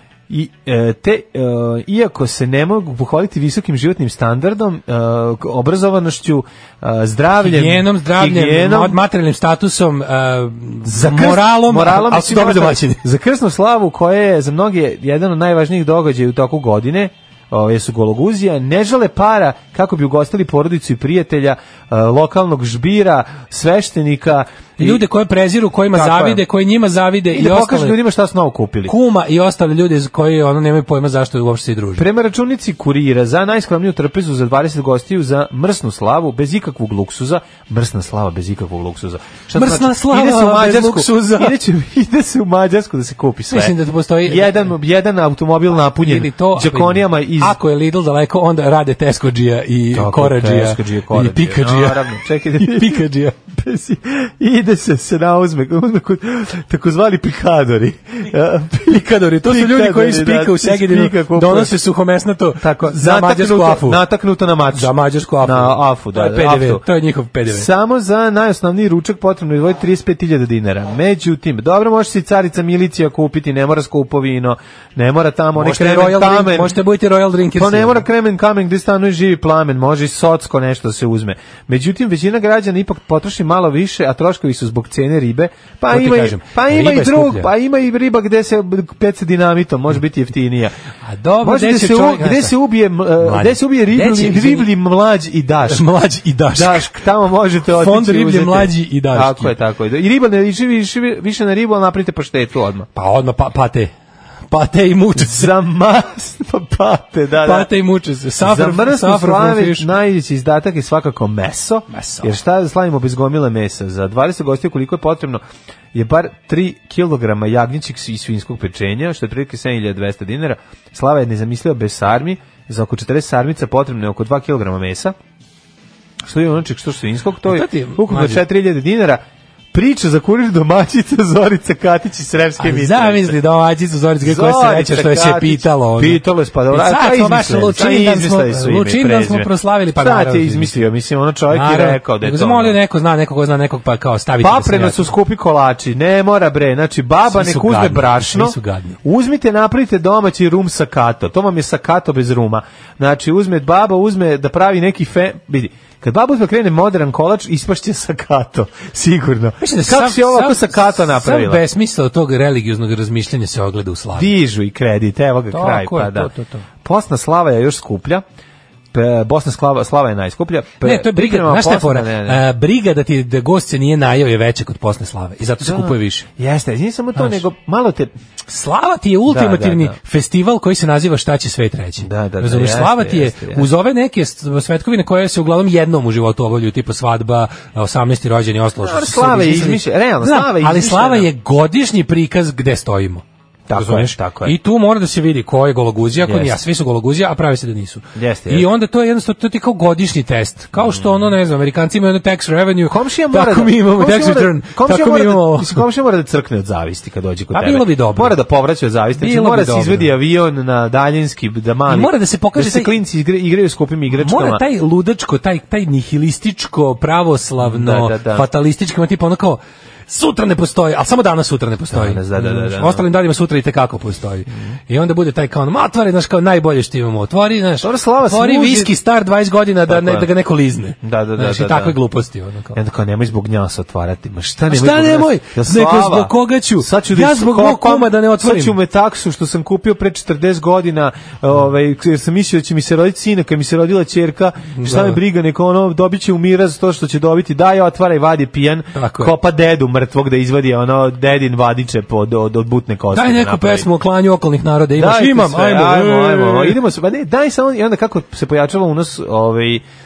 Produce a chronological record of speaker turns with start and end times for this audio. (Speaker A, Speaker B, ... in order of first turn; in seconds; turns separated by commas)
Speaker A: 0.3-9.0, Speaker B: 7.4-13.0, Speaker A: 10.9-25.0, Speaker B: 24.8-28.0, Speaker A: 25.9-26.4, Speaker A: 27.3-28.9, Speaker B: 28.9-32.0, Speaker A: 31.9-47.6, Speaker B: 39.5-41.5, Speaker B: 43.5-44.7, Speaker B: 45.9-53.4, Speaker A: 49.9-61.7, Speaker B: 58.9-64.0, Speaker A: 62.6-66.8, Speaker B: 64.7-67.7, Speaker A: 67.5-76.8, Speaker B: 75.5-78.0, Speaker A: 77.5-90.7, Speaker B: 85.9-87.5, Speaker B: 91.0-92.6, Speaker A: 91.4-95.8, Speaker B: 93.2-94.7, Speaker B: 95.7-96.9, Speaker A: 96.5-102.9, Speaker B: 97.7-99.5, Speaker B: 102.9-103.9, Speaker B: 104.5-105.5, Speaker A: 105.2-107.7, Speaker B: 107.4-109.9, Speaker A: 108.4-115.4, Speaker B: 111.9-112.3, Speaker A: 115.9-125.1, Speaker A: 126.2-129.2, Speaker B: 127.5-128.4, Speaker A: 129.7-133.4, Speaker B: 132.6-140.8, Speaker A: 134.2-142.8, Speaker B: 141.5-145.1, Speaker A: 144.4-161.6, Speaker B: 147.2-149.0, Speaker B: 159.6-164.3, Speaker A: 164.1-166.3, Speaker B: 165.5-166.7, Speaker A: 166.8-168.2, Speaker A: 168.9-172.4, Speaker B: 170.8-176.2, Speaker A: 175.6-178.1, Speaker B: 177.2-177.4, Speaker B: 178.5-205.8, Speaker A: 179.3-179.9, Speaker A: 182.0-183.7, Speaker A: 188.8-191.3, Speaker A: 193.7-194.6, Speaker A: 196.2-196.6, Speaker A: 198.1-198.7, Speaker A: 200.8-201.3, Speaker A: 202.9-214.6, Speaker B: 207.5-208.3, Speaker B: 209.2-210.1, Speaker B: 211.9-212.9, Speaker B: 214.1-232.8, Speaker A: 217.6-218.4, Speaker A: 221.9-223.1, Speaker A: 224.5-224.8, Speaker A: 227.8-228.9, Speaker A: 229.9-230.3, Speaker A: 231.0-232.0, Speaker A: 232.7-253.9, Speaker B: 234.7-238.8, Speaker B: 244.7-245.2, Speaker B: 248.9-249.3, Speaker B: 253.1-256.8, Speaker A: 254.9-259.8